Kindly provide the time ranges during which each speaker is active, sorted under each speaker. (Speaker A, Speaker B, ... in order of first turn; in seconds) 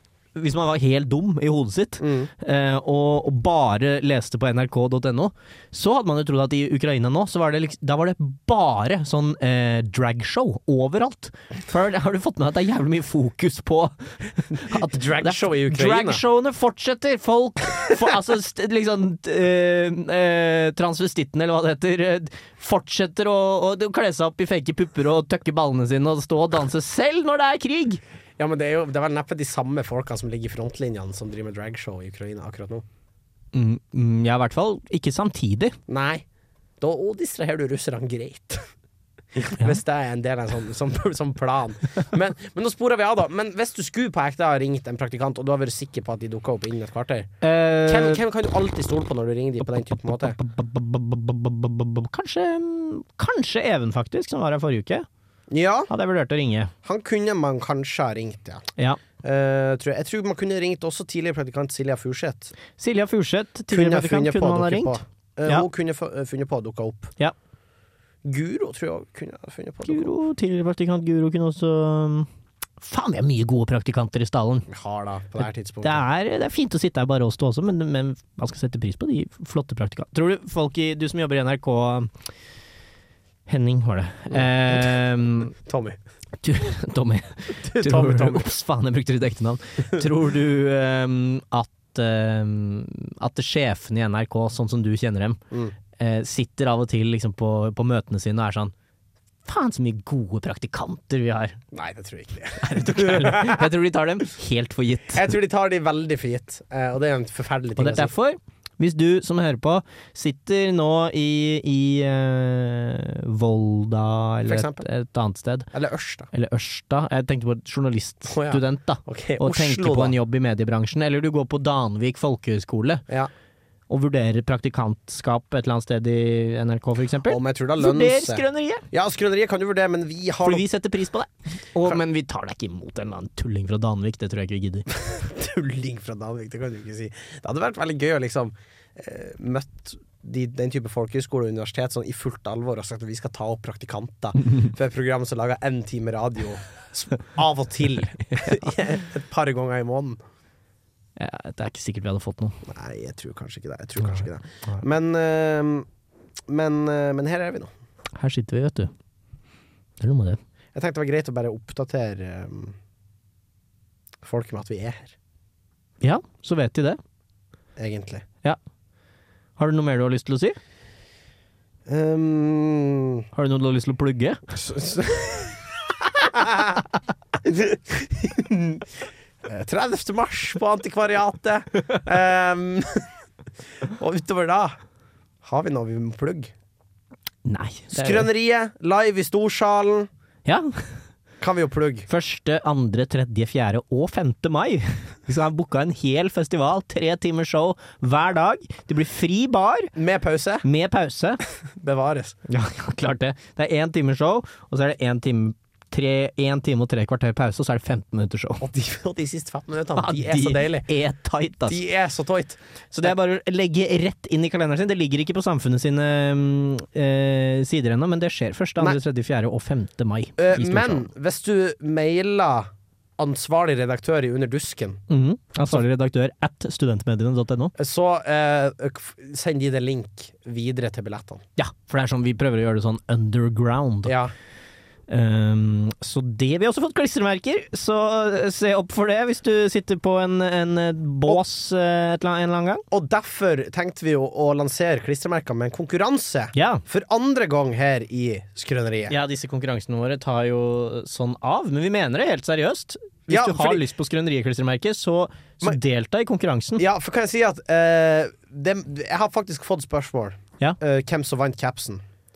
Speaker A: 0.3-28.0, 33.5-35.8, 47.4-48.2, 50.3-55.1, 55.9-56.7, 62.8-65.7, 69.8-72.3, 72.8-74.7, 75.8-82.1, 83.5-85.5, 86.4-95.4, 96.0-98.7, 99.5-101.6, 102.6-105.3, 107.8-115.7, 116.3-123.0, 123.9-128.8, 130.4-134.9, 151.2-152.6, 158.2-158.9, 160.0-160.4, 166.0-167.0, 169.6-170.6, 173.3-174.4, 187.5-188.3, 190.5-191.0, 192.1-199.9, 200.6-201.4, 202.5-208.7, 210.0-211.8, 212.9-221.1, 225.1-227.8, 231.6-234.2, 235.1-242.8, 246.6-246.8, 249.1-256.9
Speaker B: 2.0-2.3, 14.7-16.2, 28.4-32.9, 35.9-36.2, 36.8-38.7, 39.4-50.4, 55.5-55.9, 56.8-58.6, 59.2-62.5, 63.7-67.1, 68.2-70.1, 74.7-76.0, 84.3-84.9, 85.7-86.0, 87.6-88.5, 101.7-103.7, 105.1-108.1, 114.5-114.8, 115.7-116.3, 118.3-120.2, 127.3-130.7, 134.9-150.2, 152.7-155.9, 156.5-157.7, 160.8-162.8, 164.2-165.2, 167.8-168.2, 171.9-173.2, 174.5-176.9, 177.4-183.1, 183.8-184.8, 185.4-186.5, 187.9-190.1, 191.4-192.1, 200.0-200.7, 201.7-202.4, 208.6-210.9, 211.7-213.1, 220.4-225.0, 227.8-231.4, 234.1-234.3, 242.9-249.2, 253.3-253.9, 256.8-262.0